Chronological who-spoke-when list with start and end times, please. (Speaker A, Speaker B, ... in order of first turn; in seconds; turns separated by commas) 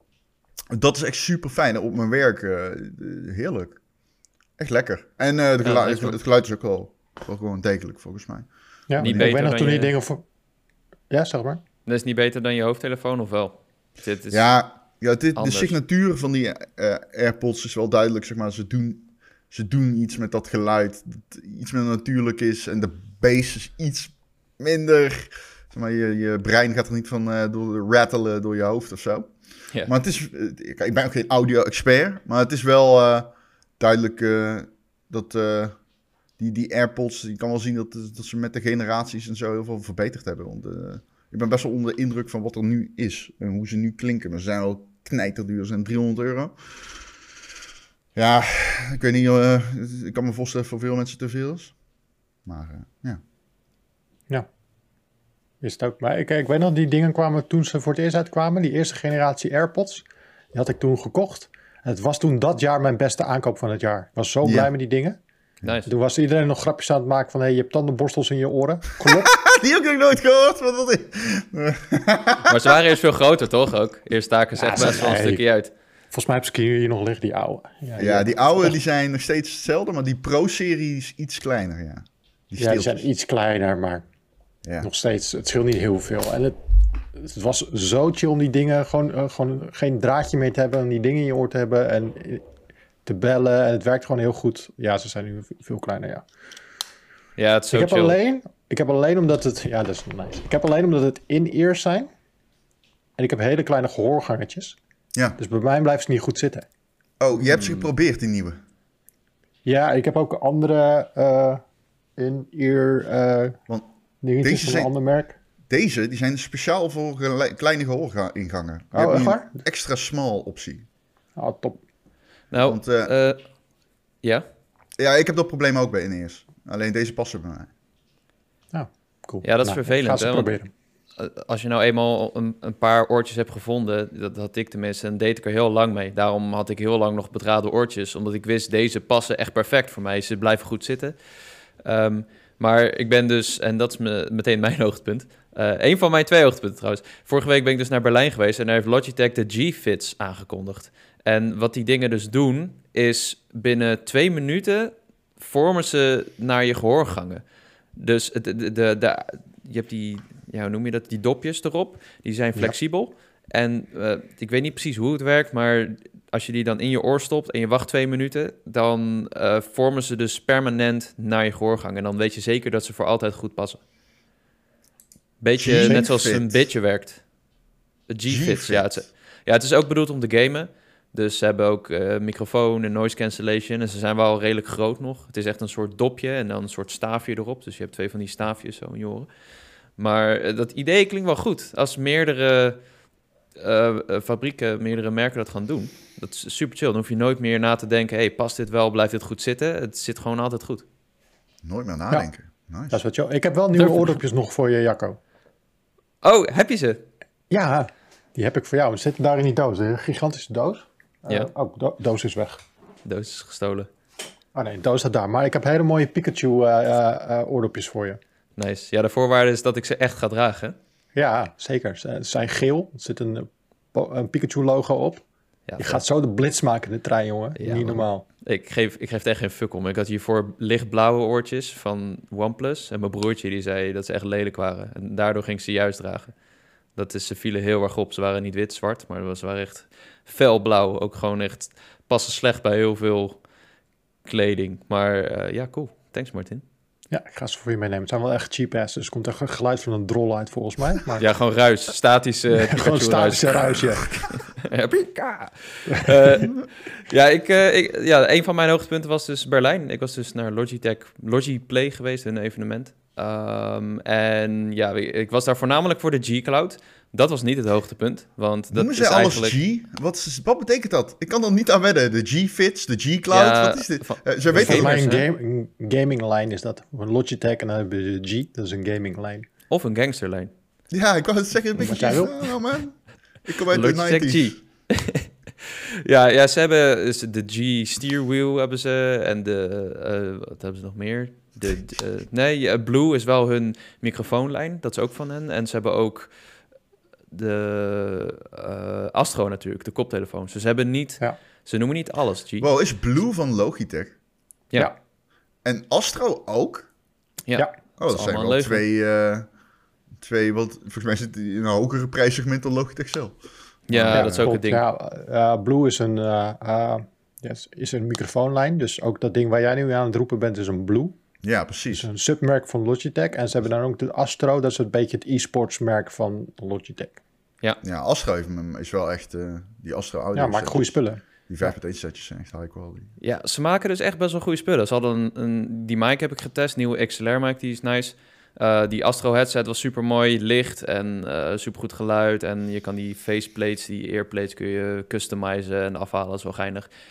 Speaker A: 0.7-3.8, Speaker A: 4.6-9.3, Speaker B: 5.6-6.2, Speaker C: 8.9-10.2, Speaker B: 9.0-9.9, Speaker C: 11.1-11.6, Speaker B: 11.9-14.5, Speaker A: 14.3-29.3, Speaker B: 15.4-15.7, Speaker A: 29.9-35.8, Speaker A: 36.4-47.0, Speaker A: 48.1-51.7, Speaker A: 52.5-53.2, Speaker C: 55.6-65.2, Speaker A: 64.4-64.7, Speaker B: 65.6-65.9, Speaker C: 65.9-69.3, Speaker A: 69.0-72.8, Speaker B: 72.5-75.7, Speaker C: 74.5-75.4, Speaker C: 76.1-78.8, Speaker A: 78.0-83.0, Speaker C: 82.6-84.0, Speaker C: 84.8-86.6, Speaker C: 87.1-92.4, Speaker C: 93.1-96.2, Speaker B: 97.4-98.2, Speaker C: 97.7-102.1, Speaker C: 103.2-104.8, Speaker C: 105.4-106.7, Speaker A: 107.2-108.6, Speaker B: 107.5-107.9, Speaker C: 109.7-111.6, Speaker C: 112.2-113.6, Speaker C: 114.2-115.4, Speaker A: 114.4-114.9, Speaker A: 115.7-120.9, Speaker C: 118.9-119.6, Speaker C: 121.4-121.8, Speaker B: 122.5-123.4, Speaker A: 122.6-123.1, Speaker A: 125.0-127.7, Speaker C: 128.7-130.7, Speaker B: 129.4-130.5, Speaker B: 131.2-141.2, Speaker B: 141.8-157.4, Speaker B: 158.0-173.8, Speaker B: 175.4-177.2, Speaker A: 175.6-176.5, Speaker B: 178.1-189.3, Speaker A: 178.3-179.0, Speaker B: 190.0-192.8, Speaker B: 193.6-200.8, Speaker A: 201.6-203.0, Speaker C: 202.9-205.2, Speaker B: 203.8-204.2, Speaker B: 206.2-207.1, Speaker C: 207.5-212.6, Speaker B: 213.1-213.9, Speaker C: 214.6-218.2, Speaker B: 218.6-220.8, Speaker C: 221.2-225.2, Speaker B: 225.7-226.0, Speaker C: 225.8-228.2, Speaker B: 227.6-236.3, Speaker B: 236.9-243.4, Speaker B: 244.2-246.6, Speaker C: 247.1-251.2, Speaker B: 251.2-269.6, Speaker C: 252.5-254.1, Speaker A: 268.7-275.1, Speaker B: 273.3-275.3, Speaker C: 274.5-279.5, Speaker B: 279.7-280.5, Speaker A: 280.9-284.6, Speaker C: 281.8-282.4, Speaker B: 283.7-296.3, Speaker B: 297.3-302.7, Speaker A: 302.6-304.2, Speaker A: 305.6-306.9, Speaker B: 307.5-308.8, Speaker A: 308.0-309.5, Speaker A: 310.2-314.4, Speaker B: 313.9-314.8, Speaker C: 314.1-321.2, Speaker A: 321.4-322.1, Speaker C: 321.9-327.2, Speaker A: 327.8-333.1, Speaker C: 330.4-331.7, Speaker B: 333.2-346.9